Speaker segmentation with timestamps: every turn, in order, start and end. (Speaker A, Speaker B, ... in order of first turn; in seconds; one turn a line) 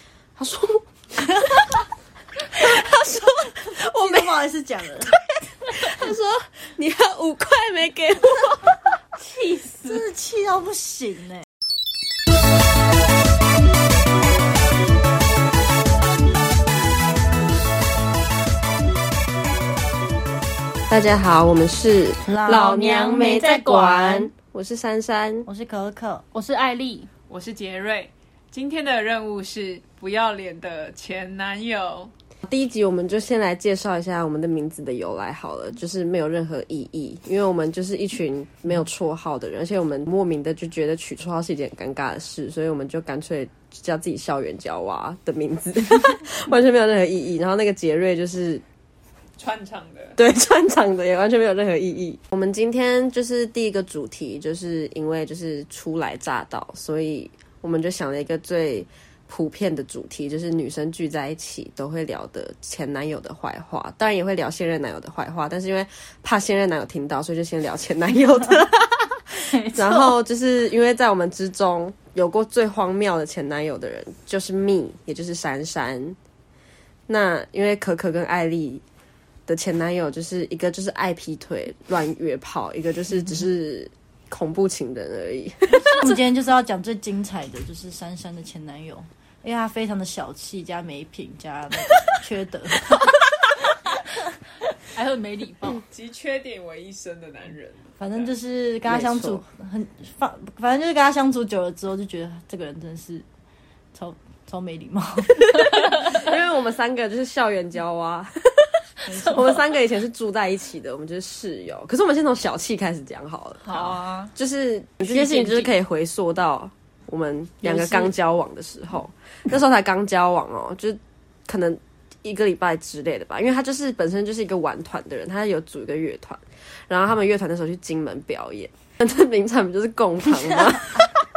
Speaker A: 0.4-1.7
Speaker A: 2.5-4.2
Speaker B: 3.7-5.1
Speaker A: 5.7-8.6
Speaker C: 9.2-10.1
Speaker B: 9.8-11.4
Speaker A: 20.9-25.5
Speaker B: 22.2-24.3
Speaker B: 25.4-26.2
Speaker C: 26.3-27.1
Speaker D: 27.3-32.1
Speaker A: 32.4-48.6
Speaker D: 49.4-50.2
Speaker A: 50.2-76.2
Speaker C: 69.5-70.2
Speaker A: 77.1-78.8
Speaker A: 79.5-86.2
Speaker B: 85.9-93.0
Speaker C: 94.9-95.8
Speaker D: 95.8-98.3
Speaker B: 98.0-103.2
Speaker A: 98.8-99.4
Speaker B: 103.9-105.5
Speaker A: 105.8-131.1
Speaker B: 109.1-109.5
Speaker C: 113.6-114.3
Speaker C: 115.0-115.7
Speaker B: 117.6-118.1
Speaker B: 130.4-130.8